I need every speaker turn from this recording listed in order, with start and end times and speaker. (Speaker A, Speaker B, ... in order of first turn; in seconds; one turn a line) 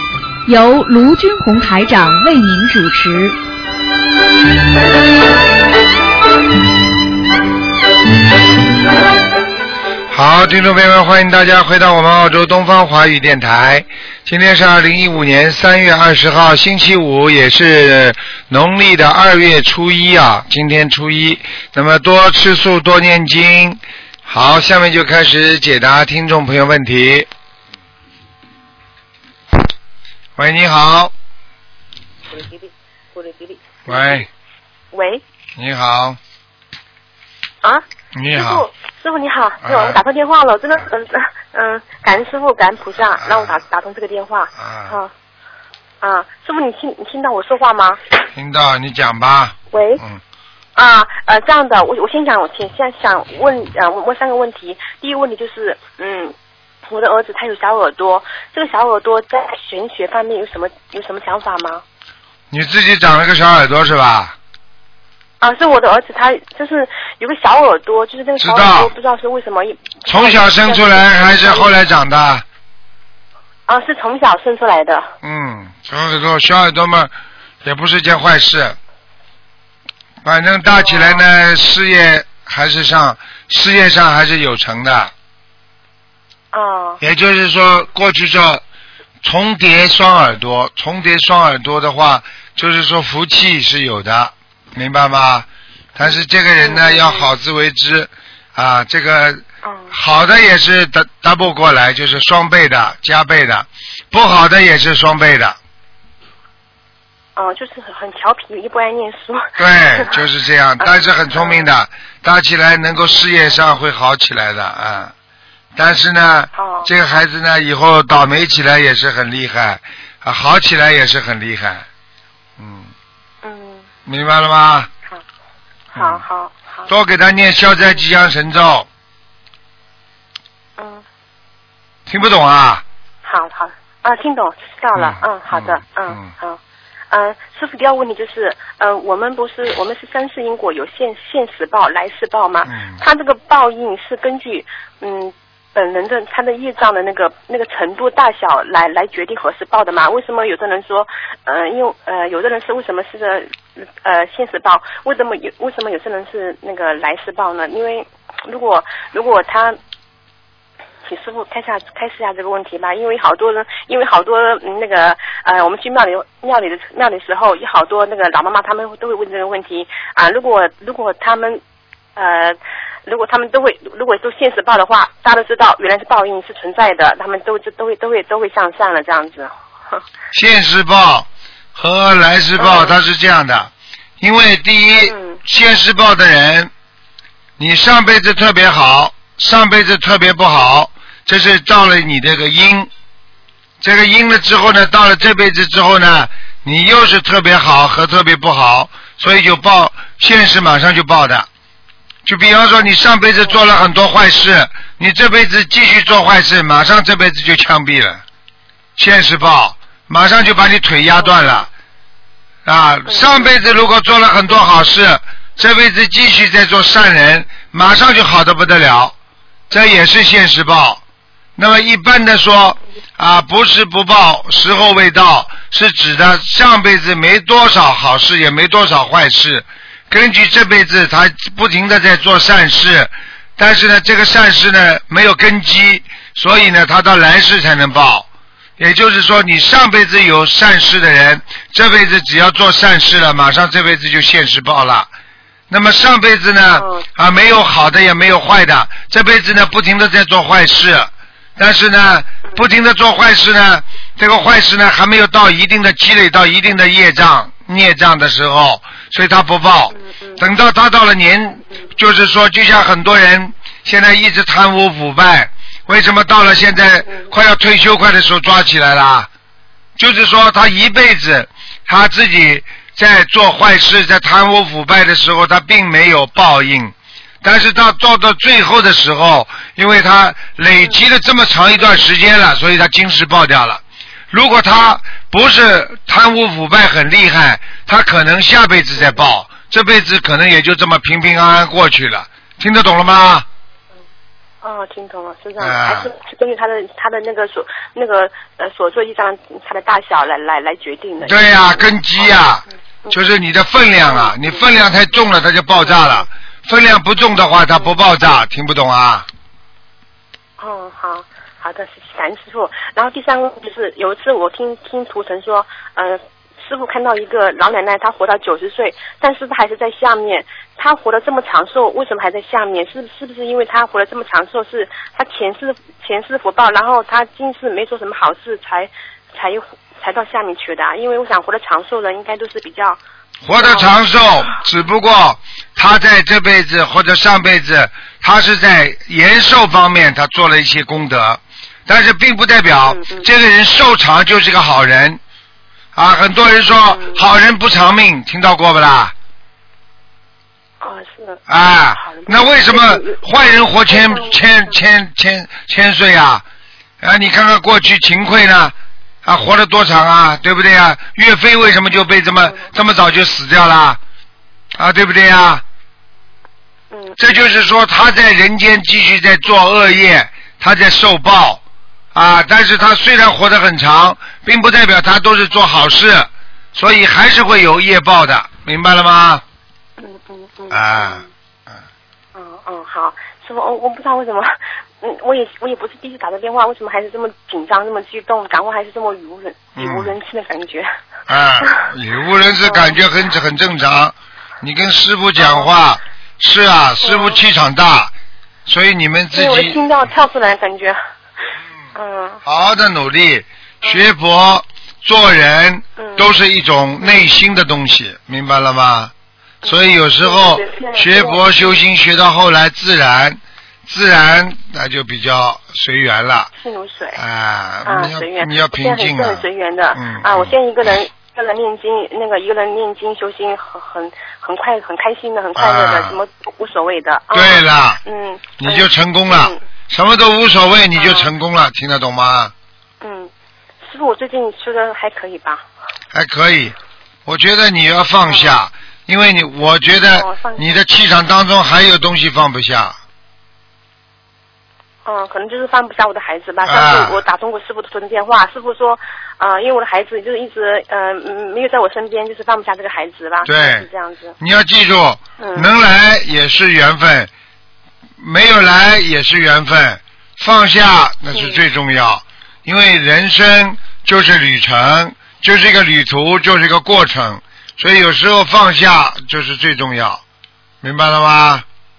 Speaker A: 0.5-3.4
Speaker B: 10.1-27.3
Speaker B: 30.4-31.1
Speaker C: 32.3-32.6
Speaker C: 33.1-34.3
Speaker B: 33.9-34.3
Speaker C: 34.9-35.2
Speaker B: 35.5-36.2
Speaker C: 37.6-45.1
Speaker B: 38.1-38.6
Speaker B: 39.6-40.0
Speaker B: 43.2-43.6
Speaker B: 44.6-45.0
Speaker C: 46.0-48.0
Speaker B: 48.3-50.2
Speaker C: 49.7-50.0
Speaker C: 50.8-56.3
Speaker C: 56.9-61.8
Speaker B: 62.5-64.3
Speaker C: 65.4-71.8
Speaker B: 68.4-68.9
Speaker B: 70.1-72.4
Speaker C: 73.7-75.1
Speaker B: 75.2-77.1
Speaker B: 77.6-78.8
Speaker B: 80.2-85.1
Speaker C: 80.7-81.2
Speaker C: 86.5-87.0
Speaker B: 87.0-88.6
Speaker B: 89.2-105.6
Speaker C: 96.0-97.3
Speaker C: 99.6-99.9
Speaker C: 107.3-110.2
Speaker B: 109.6-115.1
Speaker C: 110.8-111.7
Speaker B: 115.8-121.8
Speaker C: 116.5-116.9
Speaker B: 122.6-122.9
Speaker C: 123.4-123.8
Speaker B: 124.0-124.9
Speaker B: 125.9-126.2
Speaker C: 126.0-126.9
Speaker B: 126.9-128.9
Speaker C: 130.8-131.0
Speaker B: 132.1-132.8
Speaker C: 133.2-136.6
Speaker B: 134.9-136.3
Speaker C: 137.1-159.8
Speaker B: 142.7-143.0
Speaker C: 161.1-171.6
Speaker C: 172.2-180.0
Speaker B: 180.3-186.7
Speaker C: 182.6-182.9
Speaker C: 185.1-185.4
Speaker B: 187.6-192.9
Speaker B: 193.8-201.5
Speaker B: 202.2-208.2
Speaker B: 208.9-211.7
Speaker B: 212.6-219.1
Speaker B: 219.7-221.0
Speaker B: 221.6-238.2
Speaker B: 238.8-245.1
Speaker B: 245.7-269.3
Speaker C: 246.8-247.0
Speaker B: 270.0-293.4
Speaker C: 294.6-302.2
Speaker B: 295.6-296.1
Speaker B: 301.2-309.3
Speaker C: 304.0-304.7
Speaker C: 305.8-306.2
Speaker C: 310.6-333.0
Speaker B: 333.4-345.2
Speaker C: 333.6-333.9
Speaker C: 342.8-343.3
Speaker B: 345.9-349.1
Speaker C: 346.8-347.2
Speaker C: 350.8-351.4
Speaker B: 351.5-356.4
Speaker C: 352.0-353.2
Speaker C: 353.9-354.4
Speaker B: 357.0-358.7
Speaker B: 359.2-364.0
Speaker B: 364.7-365.6
Speaker C: 366.9-367.2
Speaker B: 367.2-371.6
Speaker B: 372.1-379.4
Speaker C: 380.0-381.3
Speaker B: 380.7-381.2
Speaker C: 382.3-390.9
Speaker B: 389.8-390.2
Speaker B: 391.3-398.1
Speaker C: 391.6-391.9
Speaker C: 392.6-392.9
Speaker C: 395.4-395.7
Speaker C: 397.0-397.4
Speaker B: 398.6-399.8
Speaker C: 399.3-401.0
Speaker C: 401.9-402.4
Speaker B: 402.4-409.1
Speaker C: 406.0-406.3
Speaker C: 409.6-411.8
Speaker B: 409.6-416.5
Speaker C: 416.6-417.2
Speaker B: 417.1-420.5
Speaker C: 417.9-429.6
Speaker B: 425.6-426.2
Speaker B: 427.3-428.0
Speaker B: 428.6-432.5
Speaker C: 430.9-431.3
Speaker C: 433.0-433.3
Speaker C: 433.8-435.6
Speaker B: 436.1-436.7
Speaker B: 437.2-443.0
Speaker C: 438.3-438.6
Speaker C: 439.9-440.8
Speaker C: 445.0-454.4
Speaker B: 446.6-447.2
Speaker B: 453.4-453.9
Speaker B: 454.4-457.3
Speaker C: 455.4-455.7
Speaker B: 458.2-470.2
Speaker C: 461.3-461.6
Speaker B: 470.8-471.6